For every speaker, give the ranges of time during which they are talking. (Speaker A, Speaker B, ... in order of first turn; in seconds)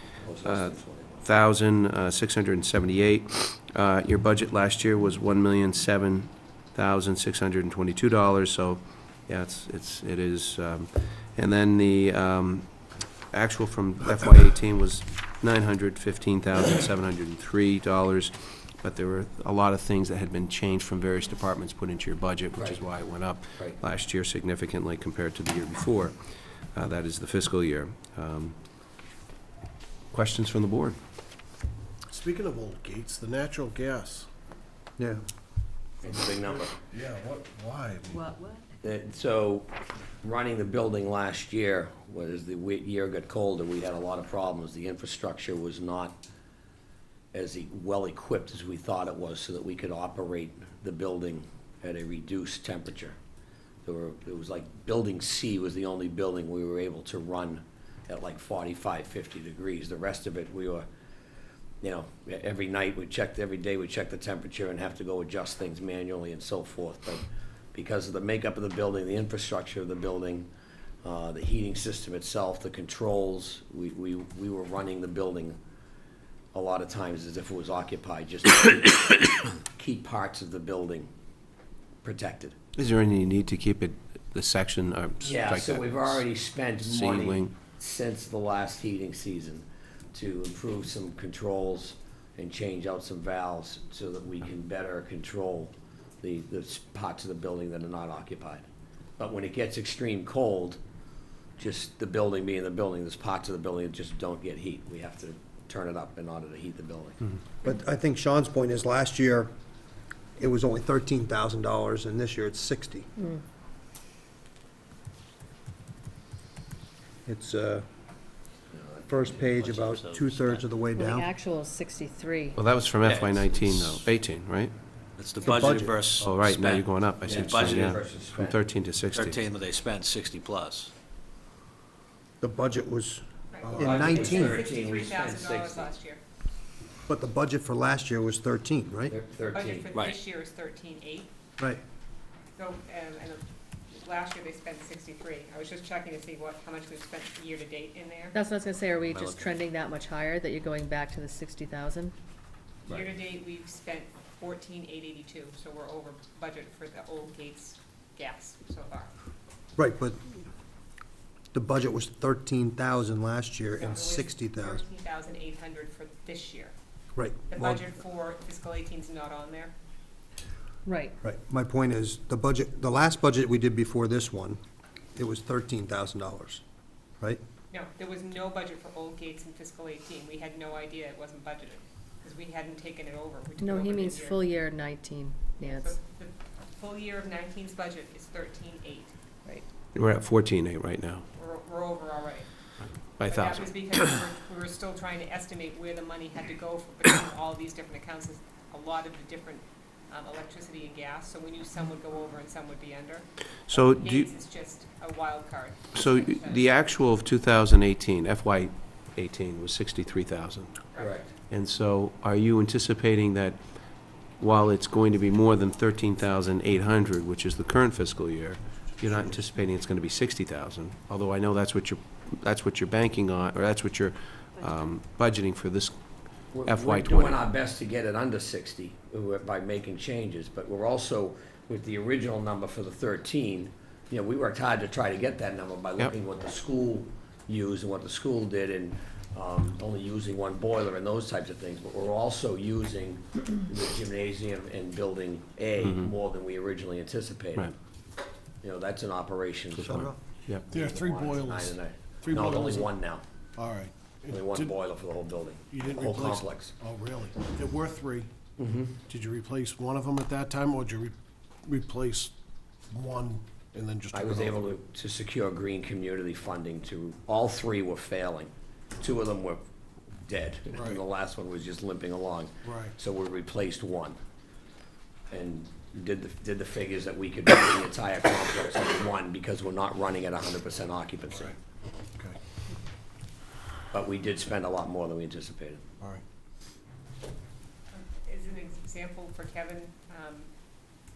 Speaker A: 0.2-1.2, 22.6-22.8, 36.0-36.8, 38.8-39.7, 40.2-46.2, 47.3-53.1, 53.8-60.9, 61.8-70.5, 71.0-75.6, 76.5-81.1, 82.0-82.5, 85.2-98.6, 99.2-100.8, 101.6-107.2, 118.7-119.5, 127.2-128.6, 133.7-135.9, 139.1-139.9, 211.0-211.3, 226.5-247.7, 248.6-250.1, 250.6-253.2, 254.3-256.7, 258.6-258.9, 264.1-269.6, 270.2-274.2, 275.3-281.5, 283.9-285.8
Speaker B: 0.4-12.7, 13.3-26.1, 26.7-28.6, 30.1-31.0, 82.8-86.2, 86.8-87.5, 122.5-124.7, 126.2-129.4, 189.9-191.2, 193.2-193.6, 203.7-204.3, 205.9-210.7, 211.5-213.6, 214.4-226.0, 226.6-227.4, 245.8-246.1, 249.8-250.6
Speaker C: 32.1-34.3, 36.5-38.3, 133.7-134.0, 250.7-252.9, 253.6-254.8, 255.7-258.3, 259.1-262.3, 262.9-264.7, 270.7-271.0, 272.6-272.9, 281.3-281.6
Speaker D: 107.6-109.5, 110.4-113.1, 117.2-117.8, 119.1-121.3, 125.4-126.0, 132.4-133.2, 133.7-134.6, 137.1-139.1, 159.8-160.2, 161.5-164.8, 167.1-167.8, 171.2-174.6, 175.2-176.6, 249.8-250.2
Speaker E: 113.2-113.4, 120.9-122.6, 148.3-152.1, 170.8-171.1, 183.6-186.0
Speaker F: 119.5-120.7, 123.0-124.0, 125.2-128.0, 129.1-130.9, 149.0-149.5
Speaker G: 133.5-136.2, 139.5-141.3, 142.6-148.3, 152.9-159.1, 163.8-166.7, 167.5-169.7, 177.7-184.4, 185.6-189.1, 191.3-192.5, 193.2-206.7, 287.9-290.5